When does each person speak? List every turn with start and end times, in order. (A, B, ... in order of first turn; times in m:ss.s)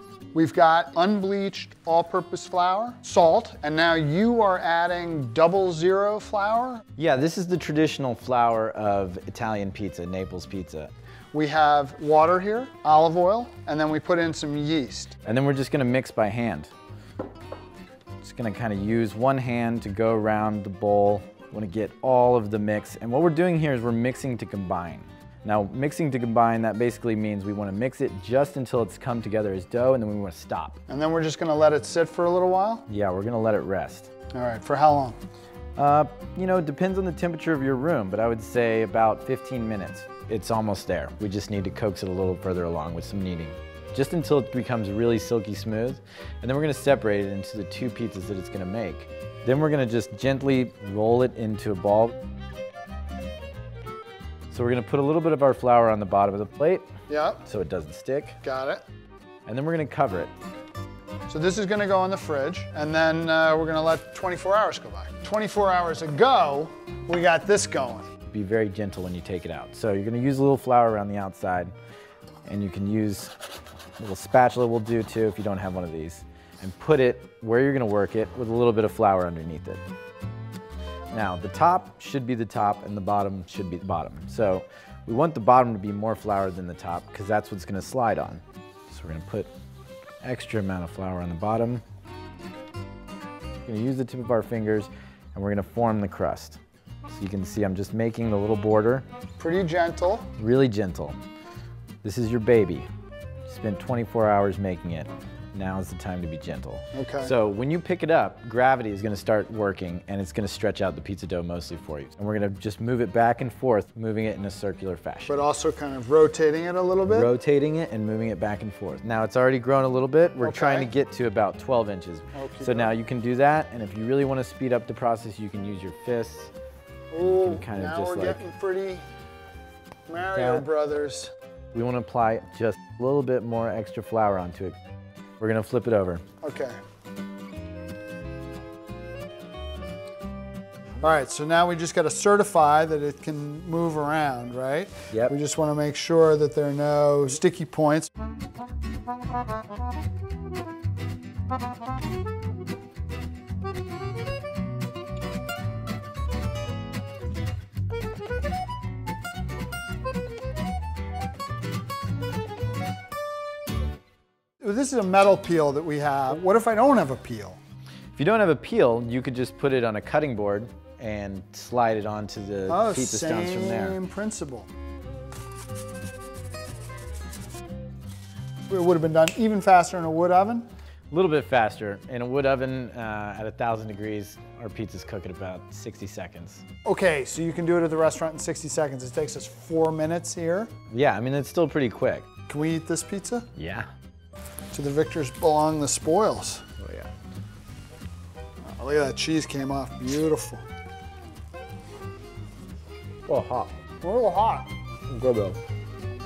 0:00.3-0:06.8 A
0:07.0-0:10.9 B
0:11.3-0:15.1 A
0:15.2-0:16.7 B
0:18.2-0:30.8 B
0:30.9-0:32.9 A
0:32.9-0:34.1 B
0:34.3-0:35.2 A
0:35.8-0:52.1 B
0:54.5-0:56.9 B
0:57.1-0:57.4 A
0:57.4-0:58.4 B
0:58.4-0:58.8 A
0:59.4-1:00.3 B
1:01.3-1:08.1 A
1:08.3-1:11.7 B
1:12.5-1:13.3 B
1:14.0-1:19.8 B
1:21.1-1:29.5 B
1:30.2-1:31.8 B
1:33.6-1:39.0 B
1:39.4-1:40.3 A
1:40.4-1:41.2 B
1:42.0-1:42.9 B
1:43.5-1:55.4 B
1:46.9-1:47.3 A
1:55.3-1:57.3 A
1:57.1-2:06.5 B
2:00.4-2:00.9 A
2:02.3-2:02.9 A
2:07.1-2:09.0 A
2:07.2-2:08.4 B
2:10.1-2:11.3 A
2:10.3-2:10.6 B
2:11.7-2:14.7 B
2:15.4-2:16.2 B
2:16.4-2:16.8 A
2:21.0-2:28.1 A
2:44.6-2:47.6 A
2:48.2-2:54.0 B
2:52.7-2:54.7 A
2:58.7-3:00.6 A
3:01.1-3:06.6 B
3:06.8-3:10.7 A
3:10.9-3:12.2 B
3:12.5-3:13.5 A
3:13.6-3:13.9 B
3:14.7-3:16.6 A
3:16.8-3:17.1 B
3:18.6-3:20.6 A
3:23.3-3:23.7 B
3:24.0-3:24.7 A
3:25.1-3:25.6 B